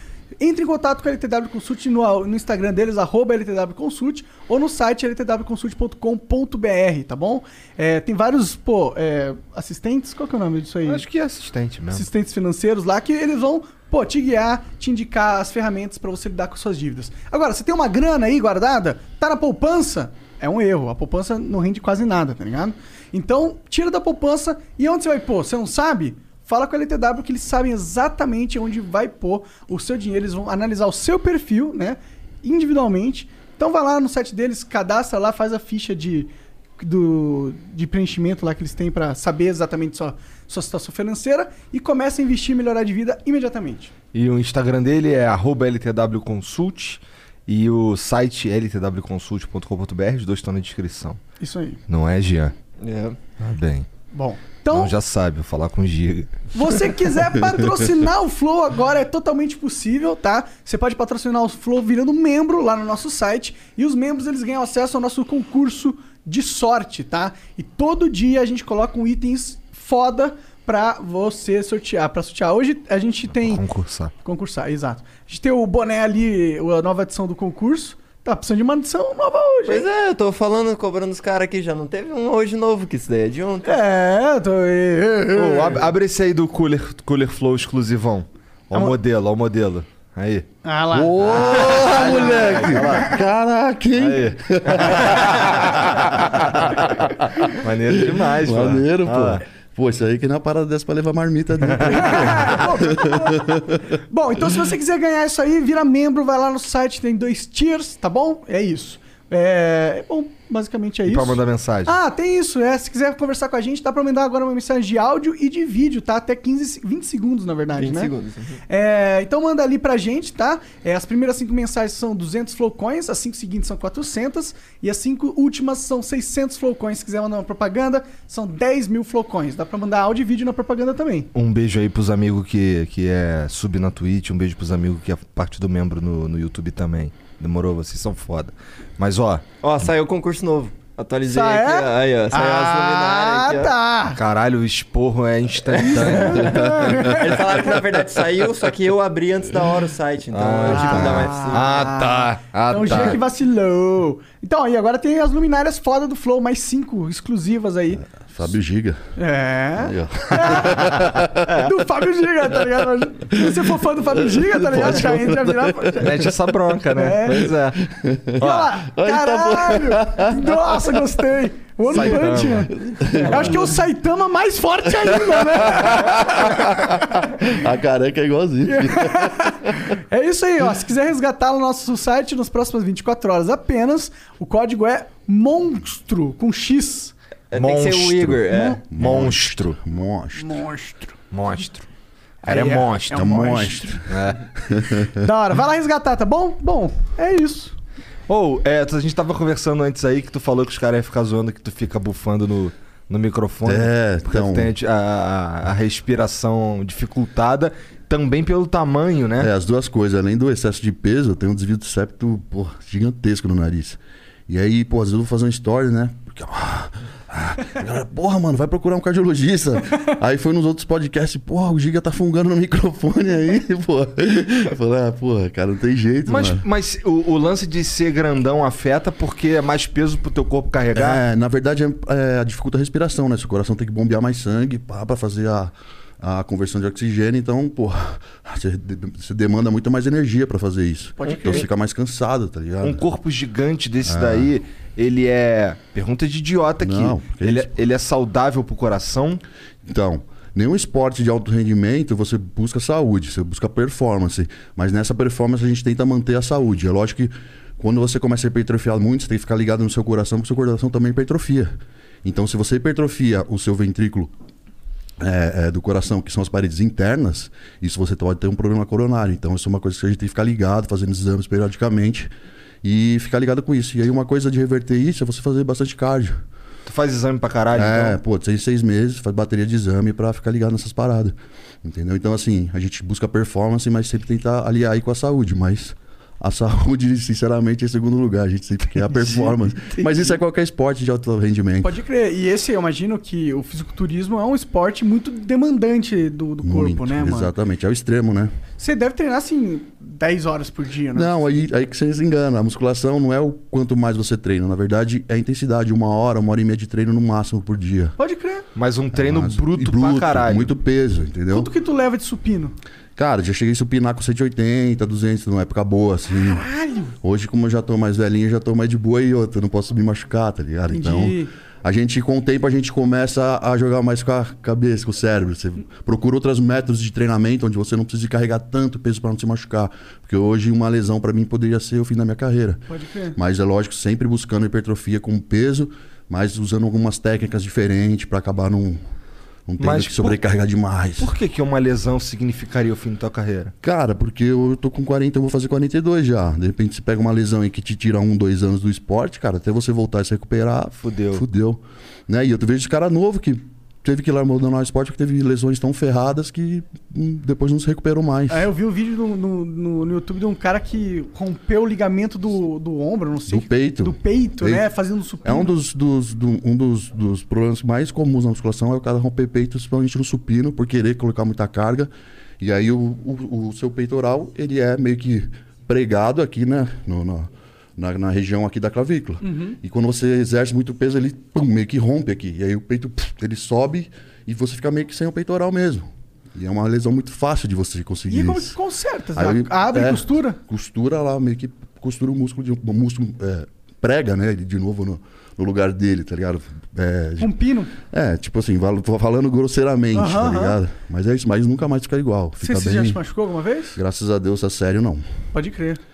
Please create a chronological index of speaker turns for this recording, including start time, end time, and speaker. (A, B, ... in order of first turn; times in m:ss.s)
0:00.4-0:11.0 A
0:10.8-0:12.0 B
0:11.9-0:43.9 A
0:44.1-0:51.2 B
0:51.4-0:51.8 A
0:51.9-0:52.5 B
0:52.8-0:53.2 C
0:53.4-0:53.8 B
0:54.1-0:54.9 A
0:54.7-0:56.5 B
0:56.5-1:13.6 A
1:13.3-1:14.1 B
1:14.2-1:19.9 A
1:19.7-1:23.8 C
1:23.6-1:25.9 A
1:25.3-1:30.5 B
1:30.6-1:33.0 A
1:30.9-1:43.8 D
1:31.4-1:33.2 B
1:34.0-1:35.6 B
1:36.2-1:36.4 B
1:37.6-1:39.4 B
1:41.8-1:58.1 A
1:51.1-1:51.9 B
1:57.8-1:58.6 C
1:58.7-2:11.3 A
2:11.3-2:19.4 B
2:19.6-2:23.8 C
2:21.3-2:24.2 A
2:24.1-2:27.1 B
2:25.8-2:27.5 A
2:25.8-2:32.1 C
2:30.3-2:33.2 B
2:30.7-2:38.0 A
2:37.9-2:39.1 D
2:39.2-2:46.3 A
2:39.8-2:41.4 D
2:43.4-2:46.1 D
2:44.8-2:45.0 B
2:46.0-2:47.8 B
2:46.9-2:47.5 A
2:47.4-2:50.8 D
2:48.4-2:57.2 A
2:48.4-2:48.7 B
2:51.9-2:53.6 B
2:52.8-2:53.6 D
2:54.8-2:59.5 D
2:58.6-3:07.1 A
3:07.5-3:08.8 C
3:07.5-3:09.8 B
3:08.5-3:08.8 A
3:08.9-3:10.6 D
3:10.4-3:11.7 A
3:11.3-3:11.8 B
3:12.4-3:14.0 A
3:12.4-3:13.4 B
3:13.1-3:14.0 D
3:14.1-3:14.4 B
3:14.6-3:15.2 D
3:15.1-3:17.7 A
3:18.3-3:29.5 B
3:23.6-3:24.7 D
3:29.4-3:46.6 D
3:46.2-3:51.2 B
3:50.9-4:03.0 D
4:01.2-4:01.6 A
4:01.2-4:01.6 B
4:02.8-4:09.4 B
4:04.0-4:04.5 D
4:06.8-4:07.7 D
4:09.8-4:24.3 D
4:25.2-4:32.3 D
4:32.8-4:36.4 D
4:36.8-4:38.2 B
4:37.7-4:52.0 D
4:49.1-4:50.4 A
4:51.8-4:57.5 A
4:56.6-4:58.5 D
4:58.8-5:01.4 A
5:01.1-5:08.2 D
5:08.2-5:08.6 A
5:08.7-5:10.7 B
5:09.1-5:11.7 D
5:11.5-5:12.7 A
5:13.2-5:16.6 D
5:16.3-5:17.1 A
5:17.2-5:39.0 D
5:20.9-5:21.5 A
5:32.9-5:33.4 A
5:39.7-5:41.3 D
5:39.8-5:40.4 B
5:41.2-5:43.7 B
5:43.8-5:58.7 D
5:51.0-5:51.4 B
5:58.5-6:05.7 A
6:03.5-6:04.9 D
6:05.4-6:28.8 D
6:19.4-6:19.8 A
6:28.3-6:30.6 A
6:29.3-6:43.2 D
6:37.4-6:37.9 A
6:40.1-6:40.8 A
6:42.6-6:44.0 A
6:43.9-6:45.3 D
6:45.5-6:46.0 A